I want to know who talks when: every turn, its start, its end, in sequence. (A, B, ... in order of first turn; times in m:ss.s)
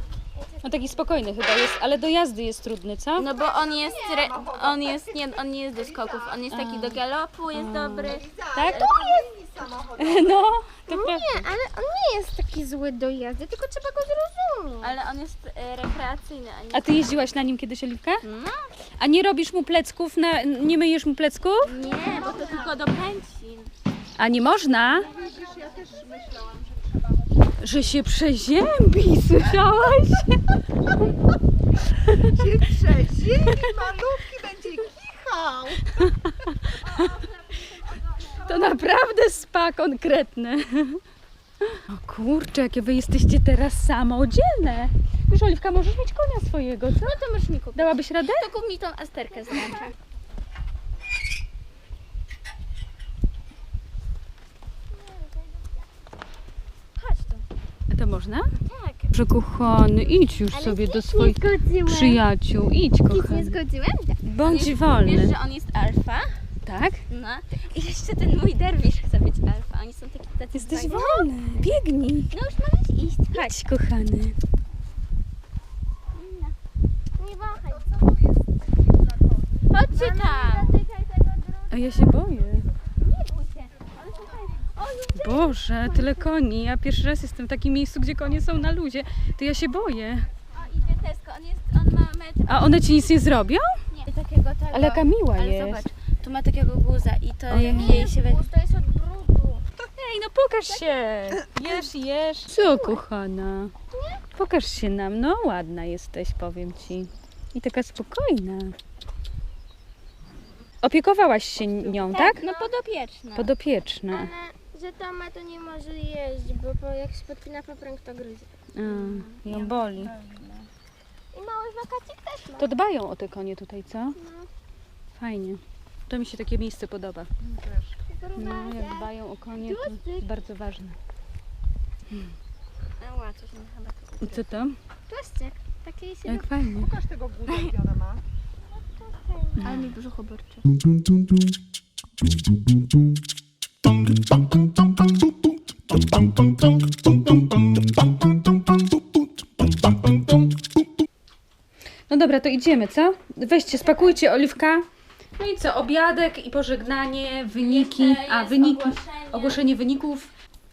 0:00.6-0:03.3 A
0:03.2-0:08.9 B
0:03.4-0:06.4 C
0:03.7-0:04.2 D
0:06.5-0:07.0 A
0:07.5-0:08.8 A
0:08.0-0:10.5 C
0:08.7-0:09.3 D
0:10.0-0:11.4 A
0:10.9-0:15.0 D
0:14.8-0:17.3 B
0:16.7-0:18.2 A
0:18.2-0:18.7 B
0:19.0-0:21.7 A
0:21.6-0:23.7 B
0:21.7-0:22.7 D
0:24.2-0:25.1 A
0:25.0-0:27.3 C
0:25.0-0:25.6 D
0:27.6-0:30.4 A
0:31.9-0:32.2 A
0:32.2-0:36.0 C
0:36.3-0:36.8 A
0:38.3-0:41.0 A
0:41.7-0:47.2 A
0:46.9-0:49.9 B
0:47.7-0:48.5 A
0:54.9-0:55.7 D
0:57.0-0:57.4 B
0:57.9-0:58.5 A
0:58.6-0:59.1 B
0:59.1-1:03.6 A
1:00.5-1:02.2 D
1:03.1-1:04.2 D
1:04.2-1:05.3 A
1:04.4-1:06.4 B
1:06.6-1:07.0 A
1:07.1-1:11.0 B
1:10.5-1:12.3 A
1:10.7-1:11.6 D
1:12.3-1:13.5 B
1:13.3-1:14.3 A
1:16.1-1:16.5 B
1:17.2-1:17.9 D
1:17.7-1:19.7 C
1:19.7-1:20.7 B
1:19.9-1:22.6 D
1:21.7-1:22.7 A
1:23.0-1:24.7 B
1:24.5-1:26.3 D
1:25.1-1:30.3 A
1:30.5-1:32.9 B
1:32.5-1:33.8 A
1:33.9-1:38.5 B
1:34.7-1:35.8 A
1:37.5-1:38.1 A
1:37.6-1:39.6 D
1:39.9-1:43.7 A
1:40.6-1:40.9 D
1:42.5-1:43.0 D
1:43.9-1:44.3 D
1:44.3-1:48.7 A
1:50.8-1:52.4 A
1:51.9-1:52.7 D
1:52.0-1:53.5 B
1:53.3-1:54.3 A
1:54.1-1:58.5 D
1:58.7-2:00.1 A
1:58.8-2:00.7 B
2:01.3-2:02.7 D
2:02.6-2:04.2 A
2:04.1-2:04.5 D
2:05.1-2:07.3 A
2:07.4-2:08.0 C
2:08.1-2:10.3 D
2:08.4-2:11.0 A
2:13.0-2:14.5 B
2:14.2-2:14.8 A
2:15.1-2:16.5 D
2:16.2-2:16.9 A
2:16.7-2:18.2 C
2:18.7-2:19.7 D
2:19.6-2:20.6 B
2:32.1-2:34.8 A
2:33.8-2:34.2 B
2:35.4-2:40.3 A
2:37.6-2:39.6 B